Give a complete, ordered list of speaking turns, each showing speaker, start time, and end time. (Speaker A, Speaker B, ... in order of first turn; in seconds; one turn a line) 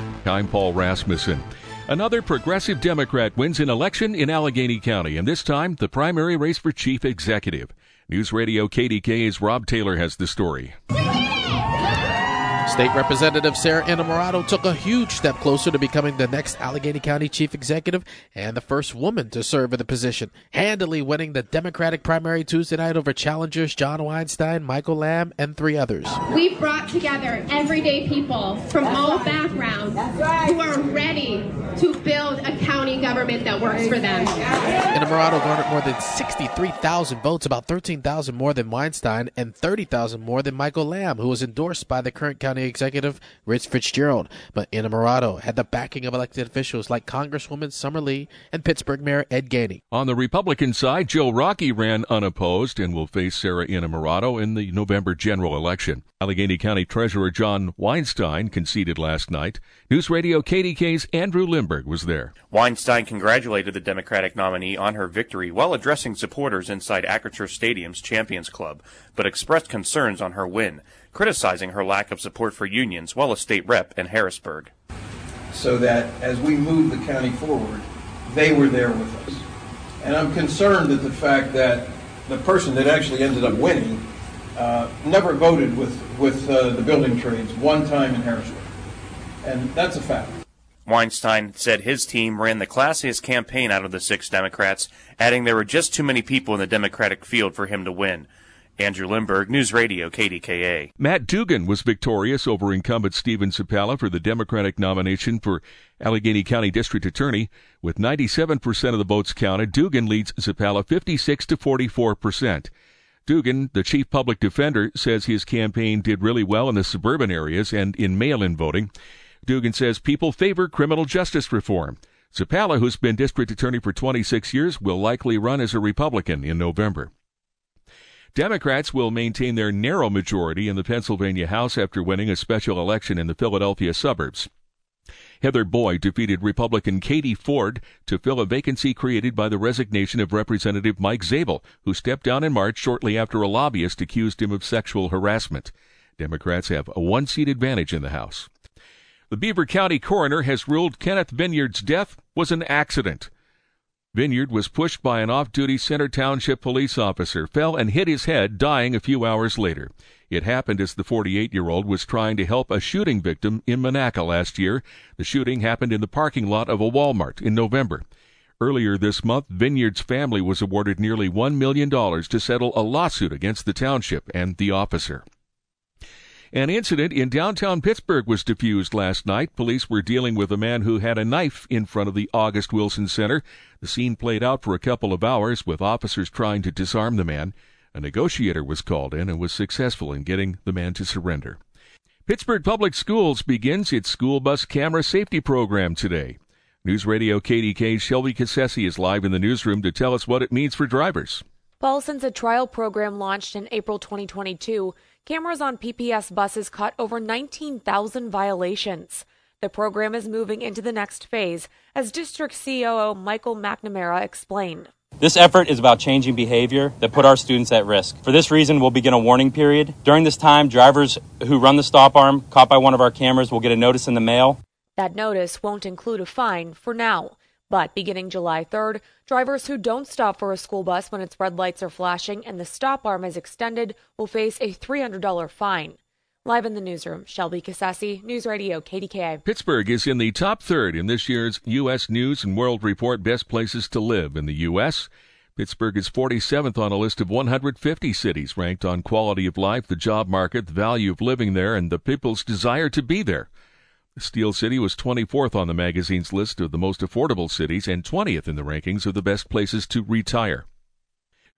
Speaker A: 0.2-10.8
Speaker B: 12.7-26.2
Speaker C: 26.3-34.4
Speaker B: 34.9-49.8
Speaker A: 49.9-62.3
Speaker D: 62.5-74.7
Speaker E: 75.5-79.4
Speaker E: 80.0-84.0
Speaker E: 84.6-88.7
Speaker E: 89.4-90.3
Speaker D: 90.9-100.9
Speaker A: 101.0-112.7
Speaker A: 113.3-118.9
Speaker A: 119.5-127.1
Speaker A: 128.3-134.5
Speaker A: 135.4-148.5
Speaker A: 149.3-153.3
Speaker A: 154.1-168.0
Speaker A: 168.6-175.2
Speaker A: 176.5-191.6
Speaker A: 192.3-201.4
Speaker F: 201.8-214.9
Speaker G: 215.2-224.6
Speaker F: 225.0-239.4
Speaker A: 239.5-253.5
Speaker A: 254.2-260.6